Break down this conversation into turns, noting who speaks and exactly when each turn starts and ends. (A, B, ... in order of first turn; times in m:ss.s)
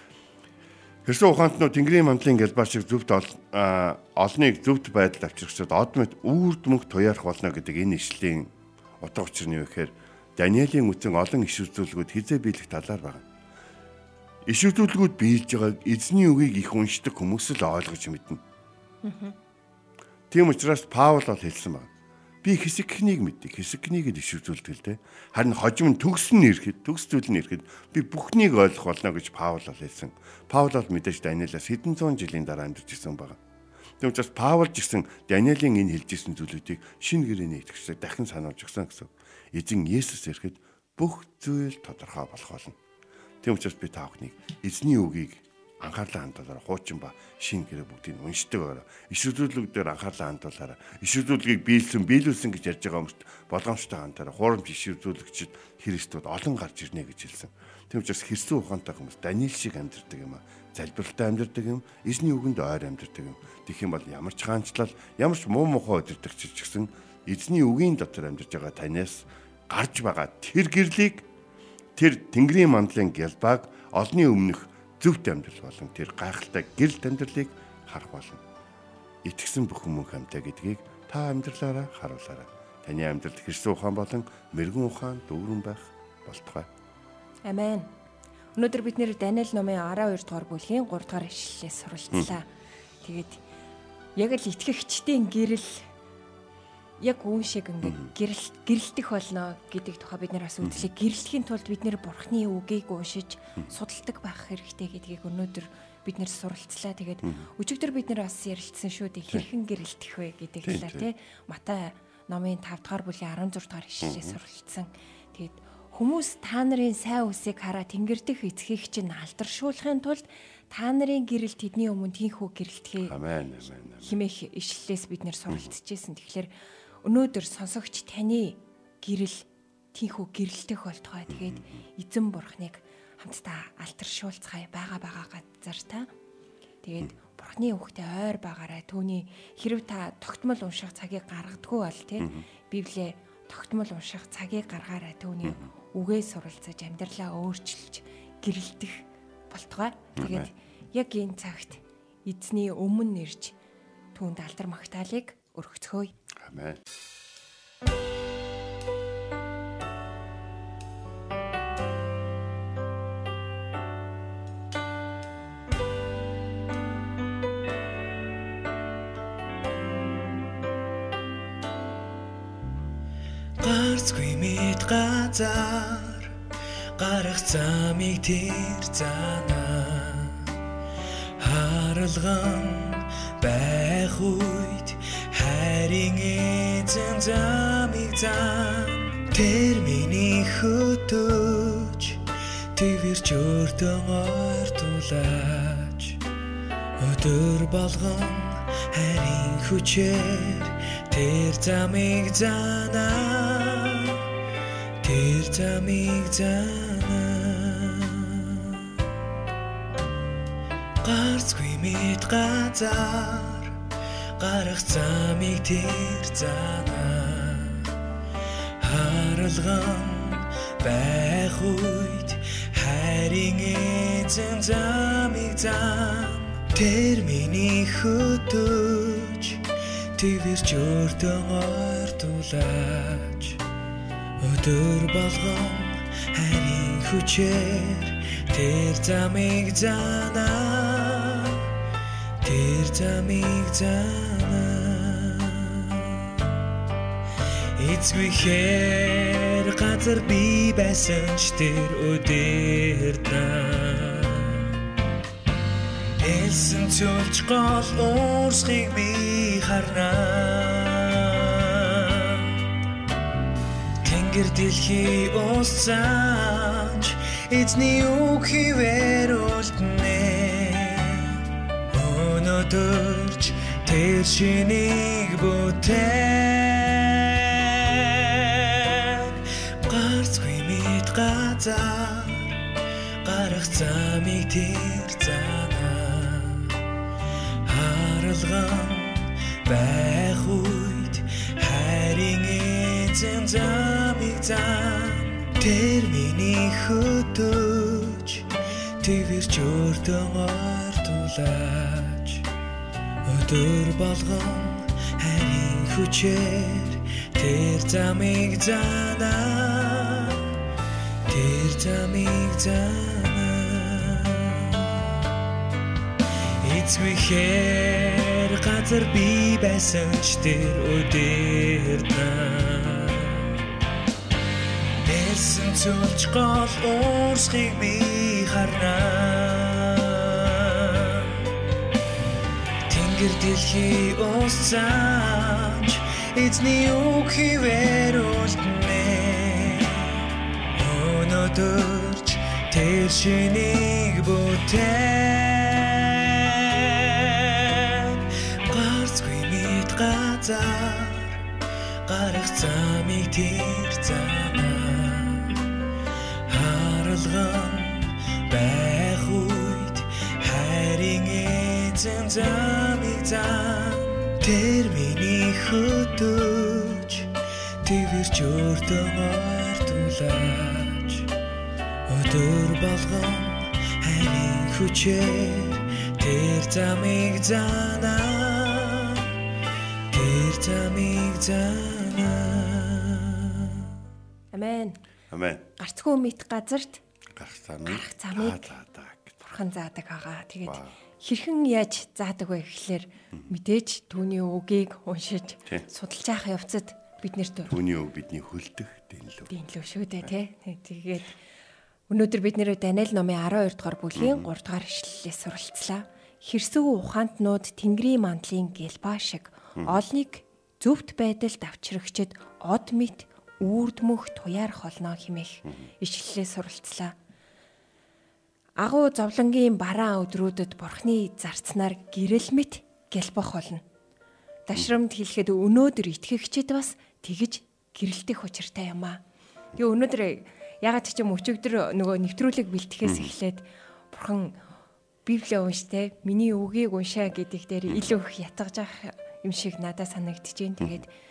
0:01.0-0:13.2 A
0:14.4-0:18.4 A
0:19.0-0:19.4 B
0:20.3-0:21.9 A
0:22.4-0:33.4 A
0:34.0-0:42.8 A
0:43.4-1:11.2 A
1:12.0-1:18.4 A
1:19.2-1:26.7 A
1:27.4-1:27.9 B
1:28.6-1:32.5 B
1:33.0-1:33.4 B
1:34.2-1:35.9 B
1:37.0-2:03.2 B
1:37.8-1:38.1 A
1:40.6-1:40.9 A
1:47.2-1:47.5 A
1:50.6-1:51.1 A
1:54.0-1:54.4 A
2:03.0-2:04.2 A
2:04.0-2:06.5 B
2:07.0-2:16.1 B
2:11.3-2:11.6 A
2:16.8-2:33.6 B
2:22.2-2:22.4 A
2:30.2-2:30.5 A
2:34.1-2:36.1 B
2:36.4-2:36.8 A
2:53.6-2:56.3 C
2:57.0-3:00.5 C
3:01.4-3:12.2 C
3:12.7-3:16.2 C
3:17.0-3:24.2 C
3:25.0-3:28.8 C
3:31.0-3:33.7 C
3:34.4-3:37.9 C
3:38.8-3:49.6 C
3:50.2-3:53.6 C
3:54.4-4:01.6 C
4:02.4-4:06.2 C
4:07.8-4:14.7 C
4:16.2-4:22.5 C
4:24.0-4:42.6 C
4:43.2-4:46.8 C
4:47.6-5:02.5 C
5:03.2-5:10.5 C
5:11.3-5:15.0 C
5:16.6-5:23.5 C
5:25.0-5:31.3 C
5:32.9-5:40.1 C
5:40.7-5:51.4 C
5:52.0-5:55.6 C
5:56.5-6:07.3 C
6:07.8-6:11.3 C
6:12.1-6:19.3 C
6:20.1-6:23.8 C
6:24.5-6:25.0 B
6:25.3-6:25.7 A
6:25.8-6:27.0 B
6:27.4-6:29.4 A
6:27.8-6:28.7 B
6:29.4-6:37.8 B
6:30.6-6:30.9 A
6:37.7-6:39.5 A
6:39.5-6:41.4 B
6:42.1-6:57.1 B
6:44.2-6:44.5 A
6:58.8-7:03.8 B
7:04.7-7:09.2 B
7:09.7-7:14.6 B
7:13.0-7:13.3 A
7:15.2-7:21.1 B